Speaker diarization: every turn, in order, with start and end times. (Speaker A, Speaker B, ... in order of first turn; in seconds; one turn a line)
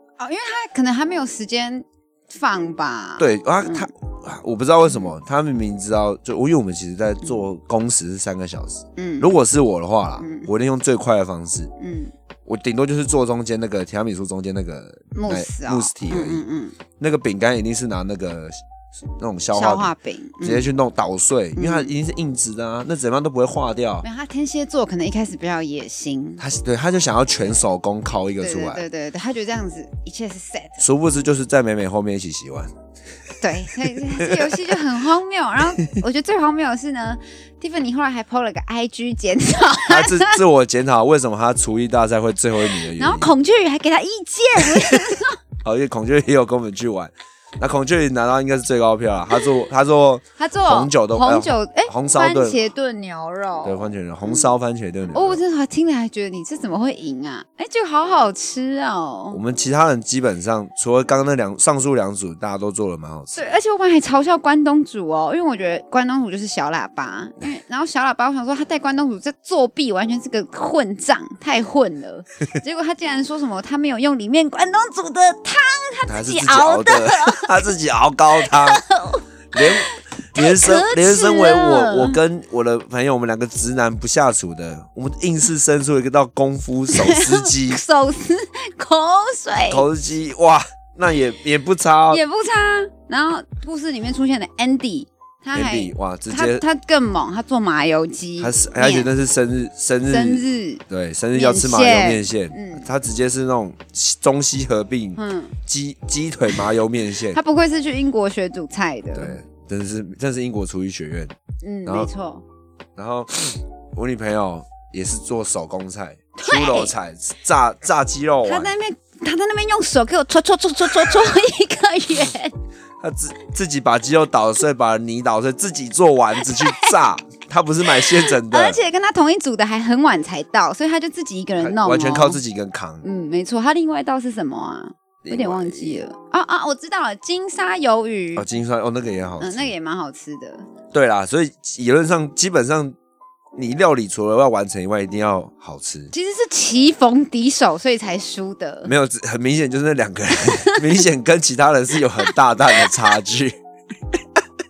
Speaker A: 0.2-3.9
Speaker B: 3.2-11.7
Speaker A: 4.9-5.1
Speaker A: 8.9-9.3
Speaker A: 10.2-10.5
Speaker A: 11.8-12.1
Speaker B: 12.4-16.4
Speaker A: 15.1-16.8
Speaker B: 17.0-18.6
Speaker B: 19.2-24.0
Speaker A: 19.5-20.7
Speaker A: 21.5-21.9
Speaker A: 24.0-26.4
Speaker B: 26.4-28.9
Speaker A: 28.4-30.8
Speaker B: 30.8-32.8
Speaker B: 33.3-34.8
Speaker A: 33.4-40.4
Speaker B: 39.9-43.3
Speaker A: 42.7-45.4
Speaker B: 44.6-52.6
Speaker A: 49.3-49.6
Speaker A: 50.4-54.5
Speaker B: 53.6-55.4
Speaker A: 55.1-59.4
Speaker B: 59.3-63.5
Speaker A: 63.3-77.6
Speaker B: 76.1-78.8
Speaker A: 78.4-82.2
Speaker B: 79.5-87.8
Speaker A: 86.9-89.8
Speaker B: 89.7-92.2
Speaker A: 92.1-99.1
Speaker B: 95.5-96.6
Speaker B: 98.4-107.4
Speaker A: 100.1-100.8
Speaker A: 101.3-102.9
Speaker A: 105.2-105.5
Speaker A: 107.3-109.4
Speaker B: 109.1-112.1
Speaker A: 111.6-112.4
Speaker B: 113.0-118.7
Speaker A: 116.4-116.9
Speaker A: 118.4-122.5
Speaker B: 121.0-121.3
Speaker B: 123.0-128.8
Speaker A: 126.5-126.9
Speaker A: 127.9-132.4
Speaker B: 131.6-133.0
Speaker A: 133.0-138.4
Speaker B: 135.2-136.0
Speaker B: 138.3-139.7
Speaker A: 139.4-140.7
Speaker B: 140.9-142.9
Speaker B: 143.5-146.1
Speaker A: 146.1-148.9
Speaker B: 148.8-153.6
Speaker A: 150.6-151.0